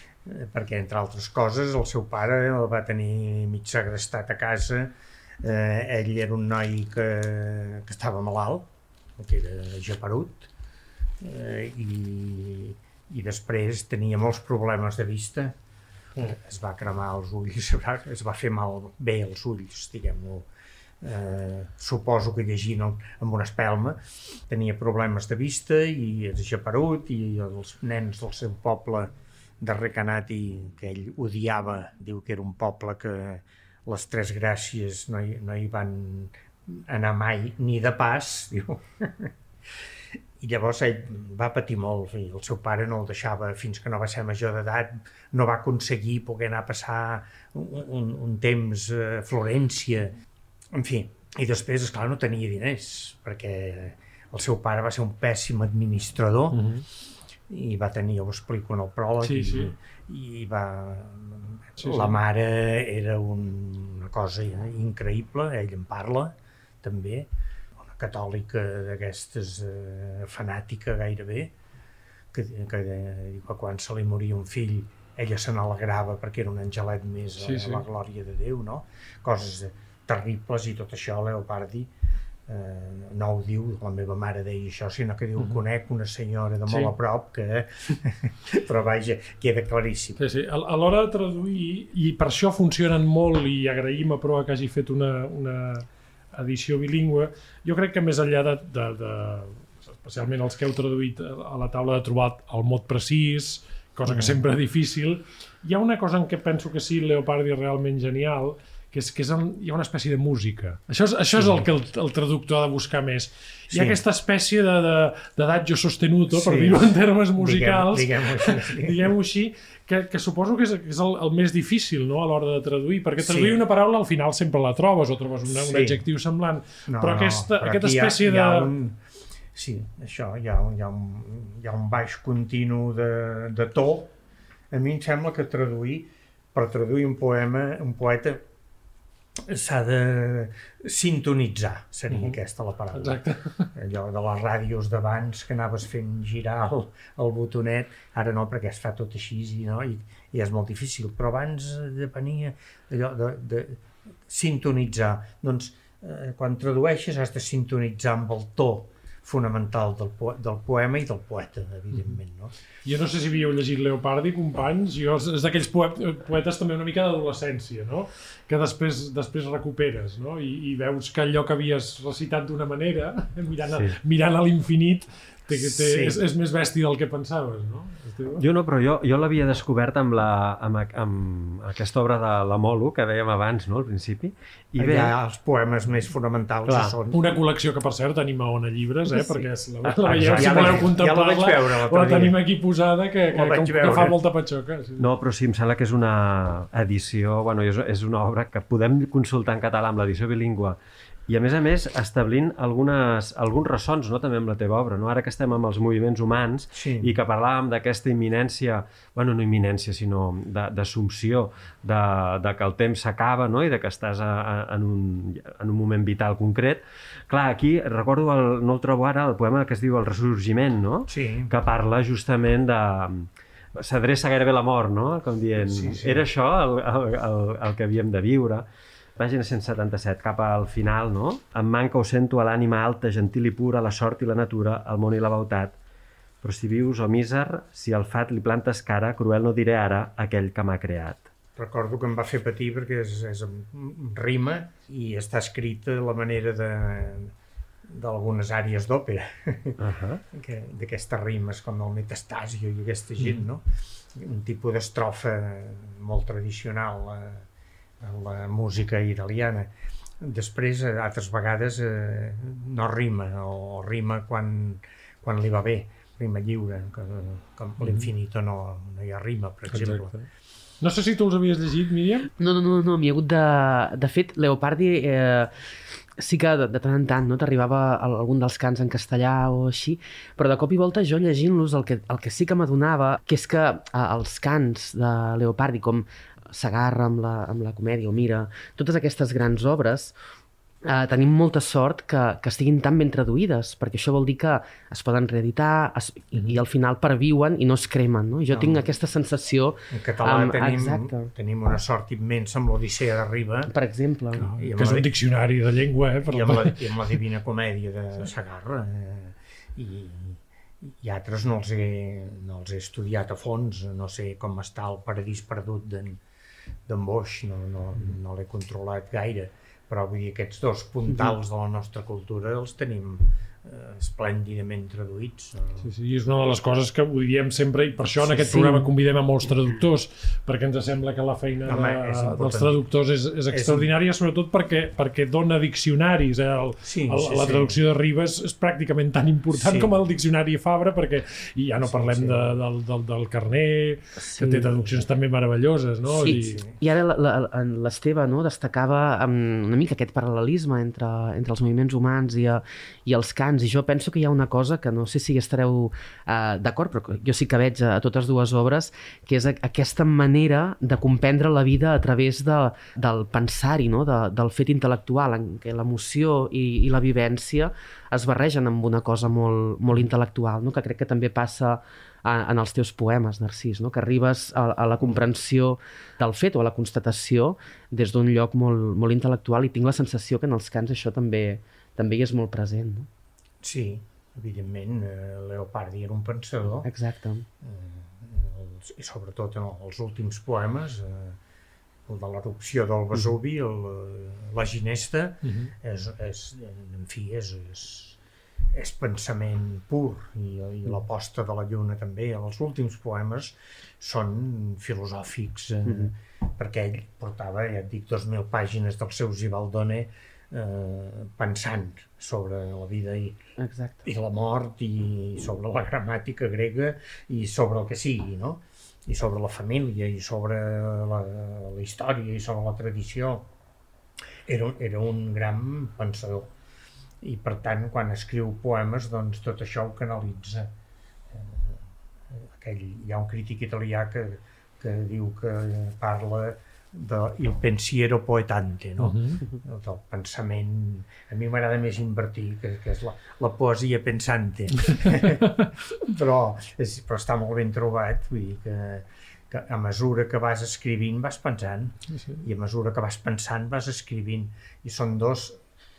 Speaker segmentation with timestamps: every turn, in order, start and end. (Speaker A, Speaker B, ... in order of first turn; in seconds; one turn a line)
Speaker A: 0.2-10.5
Speaker A: 11.2-15.6
Speaker A: 16.2-20.5
Speaker A: 21.0-39.3
Speaker A: 40.4-50.1
Speaker A: 50.7-56.7
Speaker B: 56.5-56.9
Speaker A: 57.5-71.5
Speaker B: 59.2-59.7
Speaker B: 61.8-62.2
Speaker A: 72.3-81.9
Speaker B: 77.4-77.8
Speaker A: 82.5-90.2
Speaker B: 86.7-86.9
Speaker B: 90.2-128.7
Speaker A: 104.1-104.4
Speaker A: 111.3-111.7
Speaker A: 113.7-114.0
Speaker A: 116.3-116.9
Speaker A: 117.4-119.1
Speaker A: 123.2-123.6
Speaker A: 125.5-126.0
Speaker A: 126.9-129.0
Speaker A: 129.5-134.2
Speaker A: 134.7-138.4
Speaker A: 139.5-143.2
Speaker B: 142.1-142.4
Speaker B: 142.9-143.7
Speaker A: 143.7-162.6
Speaker B: 162.8-178.4
Speaker A: 175.5-176.2
Speaker C: 178.4-185.2
Speaker A: 184.8-187.2
Speaker B: 186.7-195.1
Speaker C: 189.9-190.8
Speaker A: 190.1-192.4
Speaker A: 193.3-194.2
Speaker C: 195.0-200.8
Speaker C: 201.3-228.7
Speaker A: 206.8-207.1
Speaker A: 221.1-221.5
Speaker A: 225.6-226.3
Speaker C: 229.2-235.8
Speaker C: 236.4-241.3
Speaker A: 241.6-247.3
Speaker A: 247.9-249.8
Speaker C: 249.8-250.2
Speaker A: 250.3-257.5
Speaker A: 258.0-270.1
Speaker B: 267.8-268.1
Speaker B: 269.7-270.3
Speaker B: 270.8-272.3
Speaker D: 272.4-275.5
Speaker D: 276.2-290.1
Speaker D: 290.8-301.3
Speaker A: 298.5-298.9
Speaker A: 299.9-303.7
Speaker D: 303.7-304.5
Speaker B: 304.4-306.9
Speaker A: 304.5-305.1
Speaker A: 306.2-316.2
Speaker A: 316.9-325.9
Speaker B: 325.8-346.6
Speaker A: 328.2-328.6
Speaker D: 328.5-328.9
Speaker A: 331.7-332.8
Speaker A: 333.5-333.9
Speaker A: 336.8-337.8
Speaker A: 339.5-340.0
Speaker A: 341.8-342.5
Speaker D: 344.3-344.8
Speaker A: 346.1-346.8
Speaker D: 346.2-383.1
Speaker A: 383.6-386.9
Speaker D: 386.8-387.5
Speaker A: 387.6-391.4
Speaker A: 392.1-398.2
Speaker B: 395.4-395.7
Speaker A: 398.7-413.4
Speaker D: 413.6-414.1
Speaker A: 414.1-423.5
Speaker A: 424.5-426.5
Speaker A: 427.2-430.7
Speaker A: 431.3-455.6
Speaker B: 439.0-439.4
Speaker B: 452.1-452.4